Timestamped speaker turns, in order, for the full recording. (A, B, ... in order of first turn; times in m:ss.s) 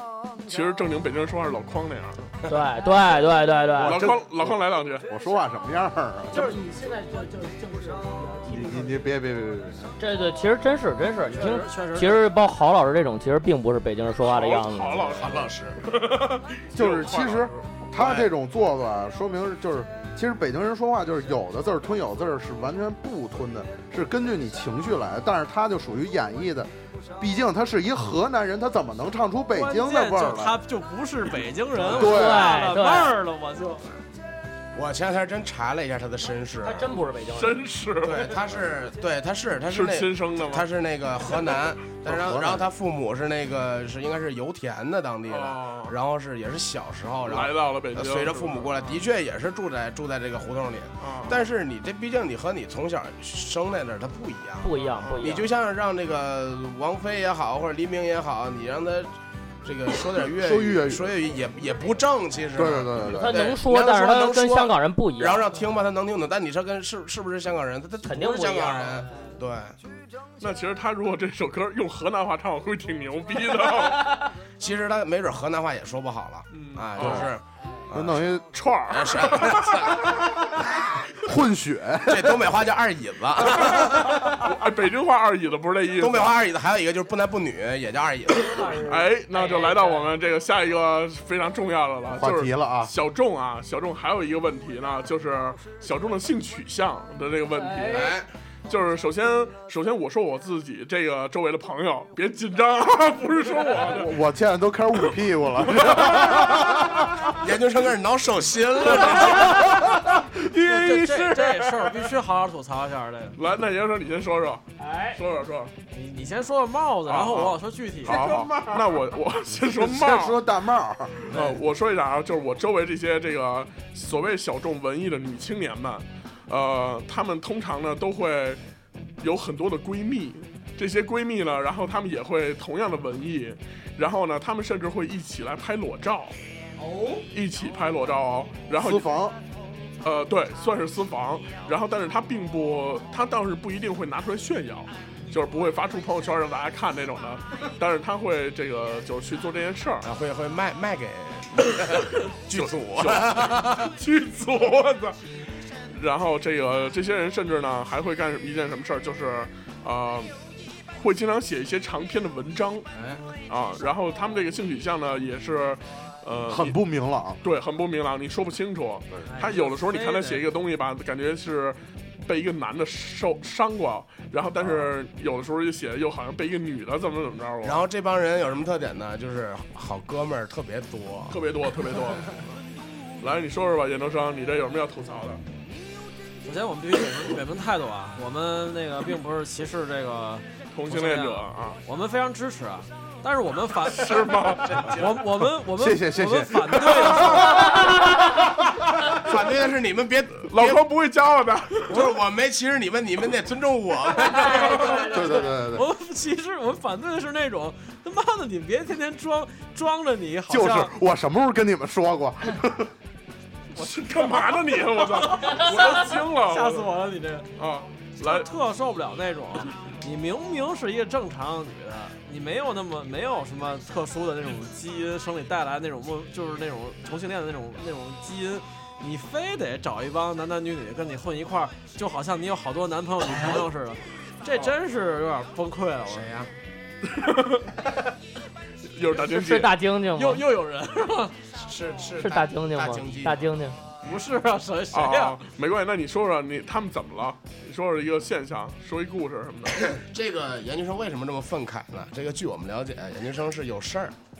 0:00.4-0:02.3 A
0:02.5-0:04.1 B
0:03.8-0:06.6 C
0:03.8-0:05.0 A
0:06.3-0:09.1 D
0:08.5-0:09.9 C
0:10.0-0:15.2 B
0:11.3-0:12.3 E
0:14.2-0:17.6 A
0:15.0-0:15.8 F
0:16.7-0:30.6 C
0:29.5-0:34.0 E
0:31.8-0:32.5 C
0:32.0-0:33.1 B
0:34.7-0:37.0 F
0:36.6-0:37.6 B
0:37.3-0:38.4 A
0:38.0-0:59.1 F
0:39.7-0:40.7 A
0:42.0-0:42.7 C
0:45.3-0:45.9 A
0:47.2-0:48.8 A
0:51.0-0:51.4 A
0:54.6-0:55.5 B
0:55.0-0:55.4 A
0:59.6-1:09.8 F
1:00.2-1:01.1 C
1:02.5-1:03.4 C
1:03.0-1:05.4 B
1:08.0-1:09.0 B
1:10.4-1:14.2 A
1:14.6-1:18.2 F
1:16.5-1:17.3 A
1:17.0-1:17.3 C
1:17.9-1:18.5 C
1:18.5-1:19.9 A
1:18.9-1:20.3 F
1:21.2-1:22.5 C
1:22.1-1:24.3 F
1:24.1-1:26.4 A
1:26.0-1:28.8 F
1:28.4-1:29.9 D
1:28.8-1:38.2 A
1:32.1-1:32.9 C
1:37.6-1:38.1 D
1:37.8-1:38.3 F
1:38.7-1:44.2 A
1:43.9-1:47.3 C
1:45.7-1:46.6 A
1:47.4-1:49.7 F
1:49.4-1:50.9 C
1:50.6-1:53.4 E
1:53.4-1:55.7 A
1:55.9-1:58.3 E
1:57.1-2:00.4 A
1:59.7-2:01.3 C
2:01.3-2:08.6 A
2:09.2-2:16.4 A
2:16.8-2:17.2 D
2:17.3-2:19.1 A
2:18.7-2:19.4 C
2:20.0-2:30.1 A
2:30.0-2:33.9 F
2:32.5-2:35.2 A
2:35.9-2:40.3 A
2:40.9-2:42.9 A
2:42.9-2:43.2 F
2:43.5-2:46.8 A
2:46.5-2:47.4 C
2:47.4-2:57.8 A
2:49.3-2:50.4 E
2:57.6-3:01.4 F
3:01.3-3:02.6 A
3:03.2-3:05.4 A
3:06.4-3:14.2 E
3:10.7-3:11.8 A
3:13.9-3:15.0 A
3:14.6-3:15.0 F
3:14.9-3:17.8 E
3:15.7-3:18.6 C
3:19.0-3:20.8 F
3:20.4-3:22.0 A
3:21.9-3:25.2 F
3:24.3-3:25.0 D
3:24.5-3:30.9 E
3:25.0-3:25.8 C
3:30.5-3:32.9 C
3:33.7-3:37.0 A
3:33.8-3:34.1 E
3:35.0-3:37.5 E
3:37.6-3:38.5 A
3:38.2-3:56.3 E
3:56.0-3:56.5 F
3:57.0-3:57.7 A
3:58.9-3:59.8 A
3:59.1-4:00.4 B
4:00.1-4:01.5 E
4:01.6-4:03.5 F
4:02.2-4:03.8 B
4:04.0-4:05.4 E
4:04.9-4:09.8 A
4:09.8-4:14.1 F